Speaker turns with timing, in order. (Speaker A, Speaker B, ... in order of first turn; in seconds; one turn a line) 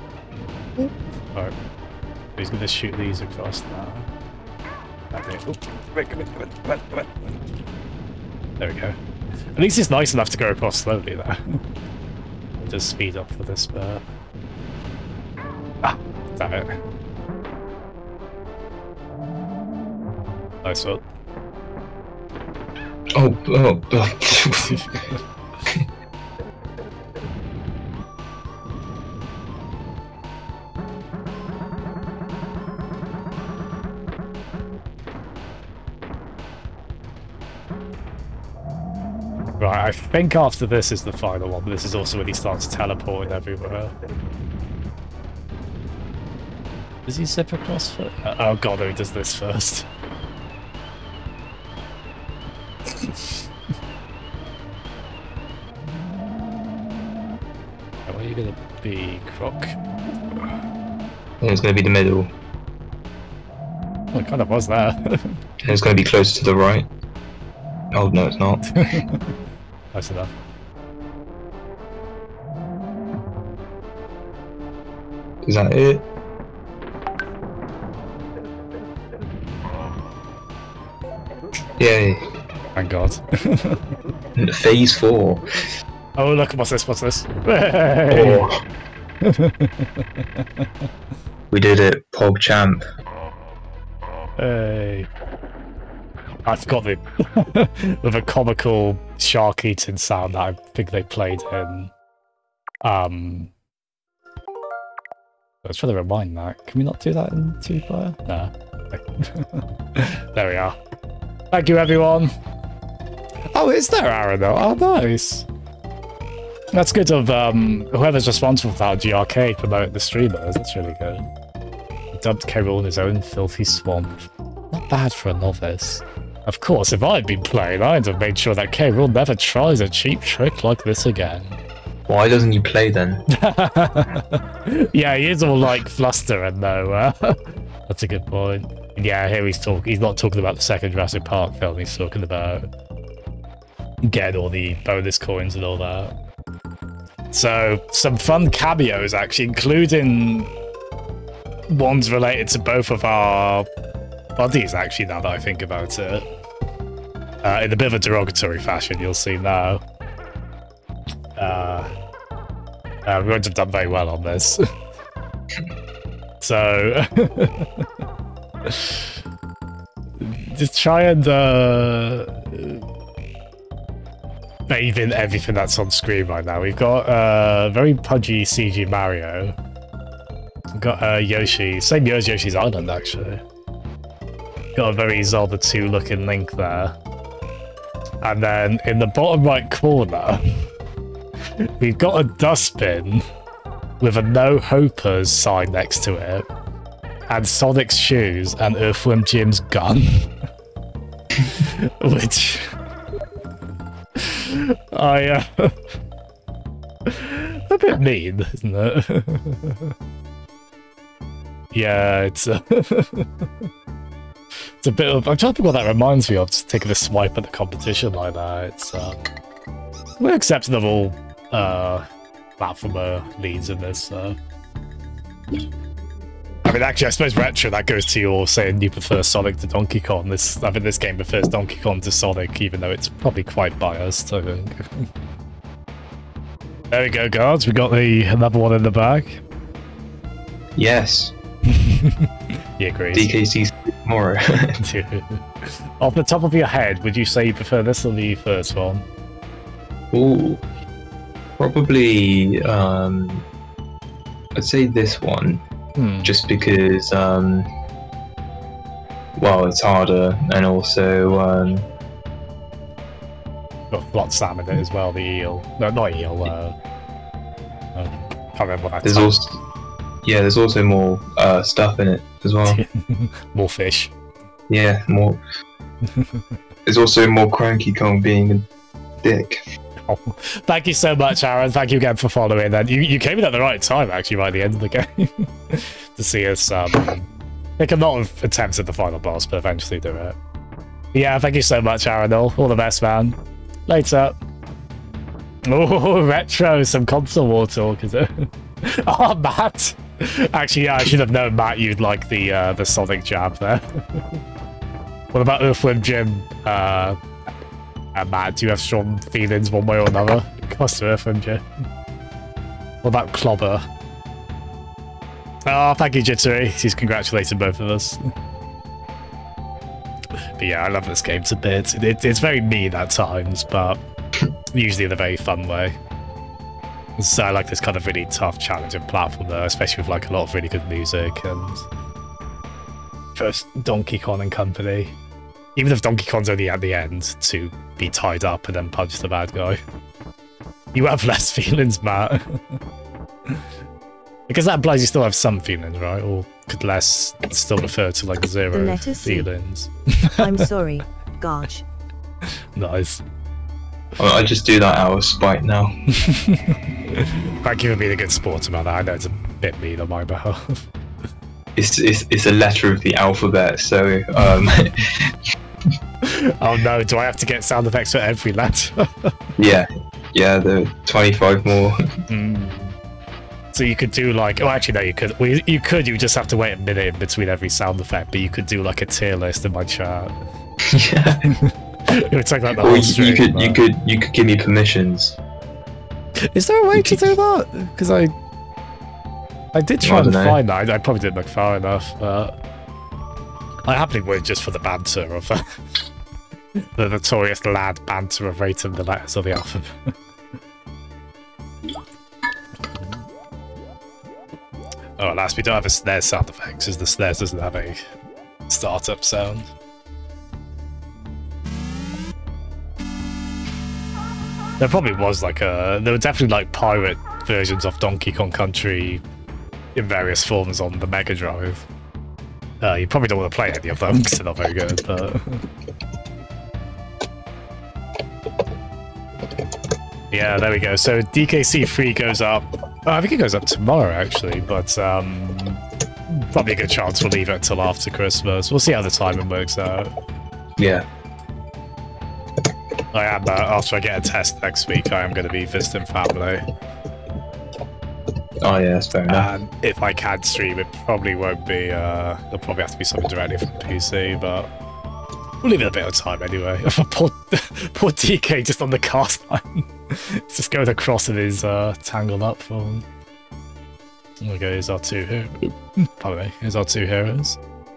Speaker A: 0.8-1.5
Speaker A: 2.4-4.1
Speaker A: 5.1-7.3
Speaker A: 8.6-8.9
Speaker A: 9.5-11.6
Speaker A: 12.6-14.0
Speaker A: 15.8-16.8
Speaker A: 20.6-21.0
Speaker B: 23.1-24.9
Speaker A: 24.6-25.2
Speaker A: 39.6-44.0
Speaker A: 47.0-49.9
Speaker A: 53.0-53.3
Speaker A: 58.1-59.8
Speaker B: 61.4-62.3
Speaker A: 64.1-65.4
Speaker B: 65.6-66.9
Speaker B: 67.9-68.8
Speaker A: 68.6-69.3
Speaker A: 69.9-70.3
Speaker B: 75.4-76.0
Speaker B: 81.8-82.2
Speaker A: 82.8-83.8
Speaker B: 84.3-85.6
Speaker A: 86.2-88.5
Speaker B: 88.1-88.6
Speaker A: 89.2-90.6
Speaker B: 91.5-92.8
Speaker A: 94.4-95.1
Speaker A: 96.5-101.9
Speaker A: 102.8-103.5
Speaker A: 105.6-110.8
Speaker A: 111.5-112.3
Speaker A: 113.5-115.5
Speaker A: 116.7-121.3
Speaker A: 122.1-131.6
Speaker B: 132.1-133.2
Speaker A: 133.3-142.7
Speaker A: 144.0-146.1
Speaker A: 147.3-150.5
Speaker A: 151.7-153.7
Speaker A: 154.4-156.2
Speaker A: 157.4-159.8
Speaker A: 161.3-161.9
Speaker A: 163.1-164.6
Speaker A: 166.4-167.8
Speaker A: 168.7-169.1
Speaker A: 170.2-172.8
Speaker A: 174.7-179.5
Speaker A: 180.7-183.4
Speaker A: 184.8-186.9
Speaker A: 188.2-190.4
Speaker A: 191.6-193.2
Speaker A: 194.0-196.5
Speaker A: 197.3-200.3
Speaker A: 201.4-202.7
Speaker A: 204.2-205.7
Speaker A: 207.1-209.9
Speaker A: 211.7-213.7
Speaker A: 214.8-219.3
Speaker A: 220.2-222.1
Speaker A: 222.6-224.4
Speaker A: 226.6-235.1
Speaker A: 236.9-239.4
Speaker B: 240.8-241.3
Speaker A: 241.7-242.3
Speaker A: 242.8-243.3
Speaker B: 243.1-244.8
Speaker A: 244.8-249.1
Speaker B: 250.1-250.6
Speaker B: 251.6-253.4
Speaker B: 254.6-255.6
Speaker A: 255.9-256.3
Speaker B: 256.2-257.7
Speaker B: 259.4-261.9
Speaker A: 263.9-266.8
Speaker A: 267.9-269.3
Speaker B: 269.0-269.6
Speaker B: 270.2-272.8
Speaker A: 272.6-274.1
Speaker B: 274.7-275.4
Speaker B: 276.9-278.7
Speaker B: 279.2-279.6
Speaker A: 280.1-290.4
Speaker A: 291.1-294.4
Speaker A: 295.6-304.4
Speaker A: 305.3-307.2
Speaker A: 308.1-311.6
Speaker A: 313.0-313.9
Speaker A: 315.6-318.2
Speaker A: 320.6-324.0
Speaker A: 324.7-326.0
Speaker A: 327.2-331.9
Speaker A: 333.4-335.1
Speaker A: 335.8-339.8
Speaker A: 340.9-342.8
Speaker A: 344.5-350.5
Speaker C: 348.7-349.5
Speaker C: 350.4-351.8
Speaker A: 352.8-353.2
Speaker B: 354.2-355.9
Speaker A: 356.1-360.8
Speaker B: 361.7-365.3
Speaker A: 366.2-369.3
Speaker B: 369.6-372.1
Speaker A: 372.3-372.9
Speaker A: 373.7-380.3
Speaker B: 380.8-381.5
Speaker A: 381.5-383.8
Speaker B: 382.8-385.4
Speaker A: 386.4-388.3
Speaker A: 389.7-392.5
Speaker B: 390.0-390.6
Speaker A: 393.8-395.7
Speaker A: 396.8-400.1
Speaker A: 402.9-403.2
Speaker A: 405.2-408.0
Speaker A: 408.7-409.7
Speaker A: 414.8-419.2
Speaker A: 419.9-421.9
Speaker A: 422.8-425.6
Speaker A: 430.3-440.1
Speaker B: 440.8-441.0
Speaker A: 443.1-446.6
Speaker B: 448.6-449.5
Speaker A: 449.3-454.7
Speaker A: 455.6-463.0
Speaker A: 464.4-467.6